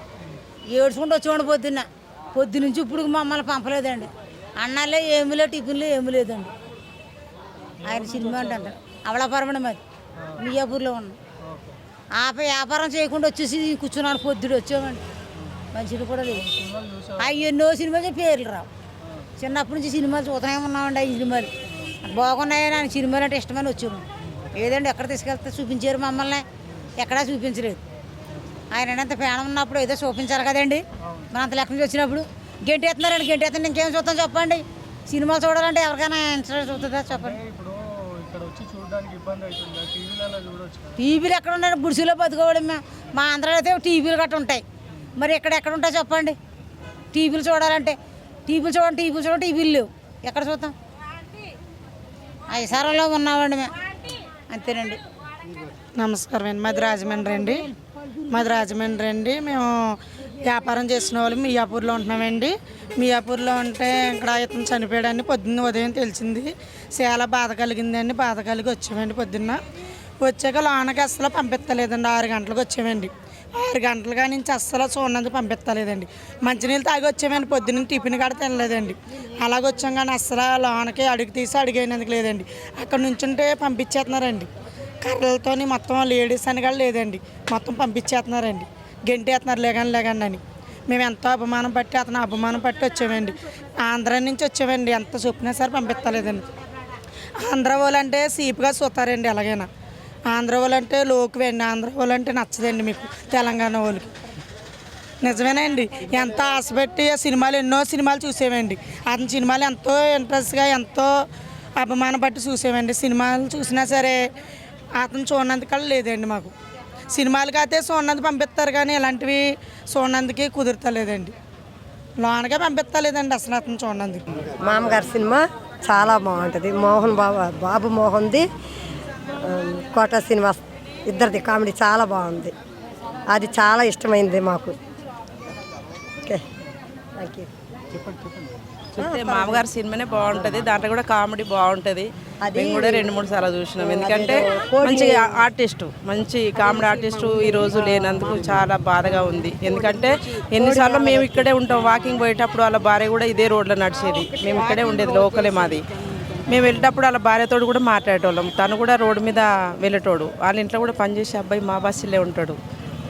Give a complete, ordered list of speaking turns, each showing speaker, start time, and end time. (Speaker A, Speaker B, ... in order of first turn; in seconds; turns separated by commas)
Speaker A: 0.7-6.5, Speaker A: 7.8-9.8, Speaker A: 10.4-11.2, Speaker A: 12.1-15.1, Speaker A: 15.7-16.6, Speaker B: 16.7-17.1, Speaker A: 17.2-18.7, Speaker A: 19.4-26.5, Speaker A: 27.0-27.8, Speaker A: 28.7-37.5, Speaker B: 37.5-40.9, Speaker A: 41.0-46.4, Speaker A: 47.1-50.8, Speaker A: 52.5-53.7, Speaker A: 54.5-55.0, Speaker C: 56.0-57.7, Speaker C: 58.3-69.6, Speaker C: 70.2-84.5, Speaker C: 85.0-96.5, Speaker C: 97.4-99.7, Speaker C: 100.3-104.1, Speaker C: 105.2-114.2, Speaker C: 115.0-116.5, Speaker C: 117.1-121.3, Speaker C: 122.2-124.2, Speaker D: 124.5-128.5, Speaker D: 129.4-132.5, Speaker D: 133.3-134.8, Speaker D: 137.2-137.5, Speaker D: 139.0-139.6, Speaker E: 139.0-155.8, Speaker D: 142.5-143.1, Speaker D: 143.8-145.5, Speaker E: 156.5-162.6